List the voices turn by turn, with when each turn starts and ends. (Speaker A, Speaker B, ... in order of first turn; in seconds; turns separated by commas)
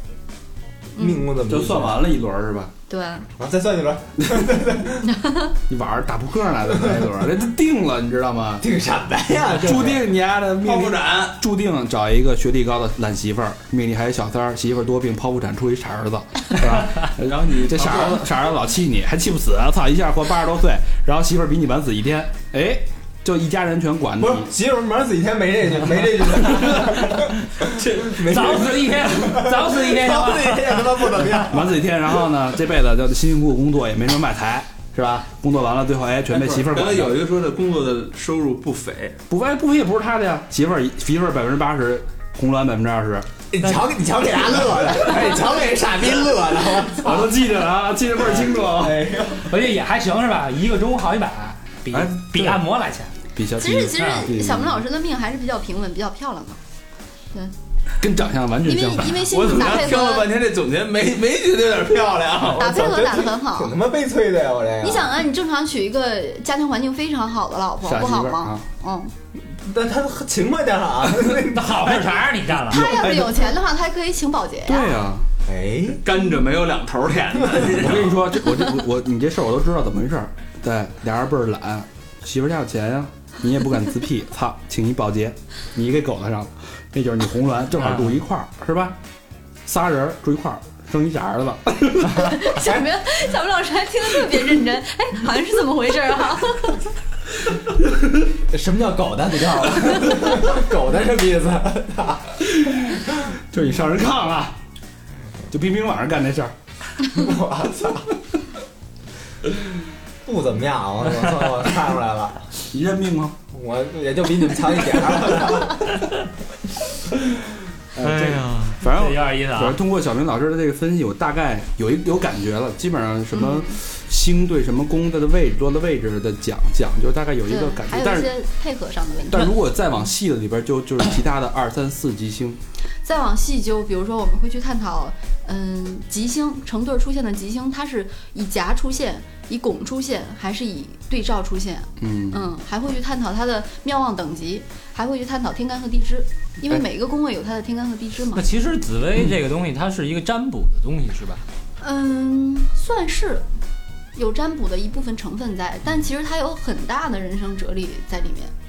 Speaker A: 0.9-2.0, Speaker B: 0.9-1.2, Speaker C: 1.5-2.7, Speaker B: 2.9-3.3, Speaker A: 3.4-5.1, Speaker B: 5.1-5.5, Speaker C: 5.7-8.6, Speaker A: 8.6-10.1, Speaker C: 9.5-24.5, Speaker D: 10.6-11.4, Speaker D: 17.1-18.3, Speaker A: 24.2-31.9, Speaker D: 27.6-28.2, Speaker E: 28.2-31.3, Speaker C: 31.4-37.2, Speaker D: 36.3-39.2, Speaker C: 39.3-43.3, Speaker A: 43.5-47.3, Speaker C: 47.0-49.1, Speaker A: 48.3-49.5, Speaker E: 49.4-53.1, Speaker C: 51.9-52.6, Speaker C: 53.3-54.8, Speaker B: 53.6-56.6, Speaker E: 54.0-54.3, Speaker C: 58.0-59.4, Speaker B: 58.6-60.3, Speaker D: 59.3-62.6, Speaker B: 62.5-63.7, Speaker A: 62.6-65.1, Speaker B: 64.8-69.1, Speaker C: 67.8-68.6, Speaker A: 69.4-72.0, Speaker E: 71.4-72.9, Speaker C: 72.7-73.4, Speaker B: 72.7-75.0, Speaker C: 74.6-75.3, Speaker A: 75.4-76.0, Speaker D: 76.0-78.2, Speaker C: 77.7-89.0, Speaker E: 87.8-88.2, Speaker C: 89.7-92.3, Speaker B: 92.0-96.8, Speaker A: 98.4-103.0, Speaker C: 102.6-104.6, Speaker C: 105.5-106.5, Speaker A: 107.1-108.1, Speaker A: 110.2-112.5, Speaker C: 112.6-113.3, Speaker A: 113.5-116.0, Speaker C: 117.9-128.3, Speaker E: 118.0-119.8, Speaker B: 123.3-123.8, Speaker B: 127.5-129.5, Speaker C: 129.3-132.6, Speaker B: 133.0-148.4, Speaker C: 142.0-142.4, Speaker E: 148.3-151.4, Speaker B: 151.8-153.4, Speaker B: 154.1-158.5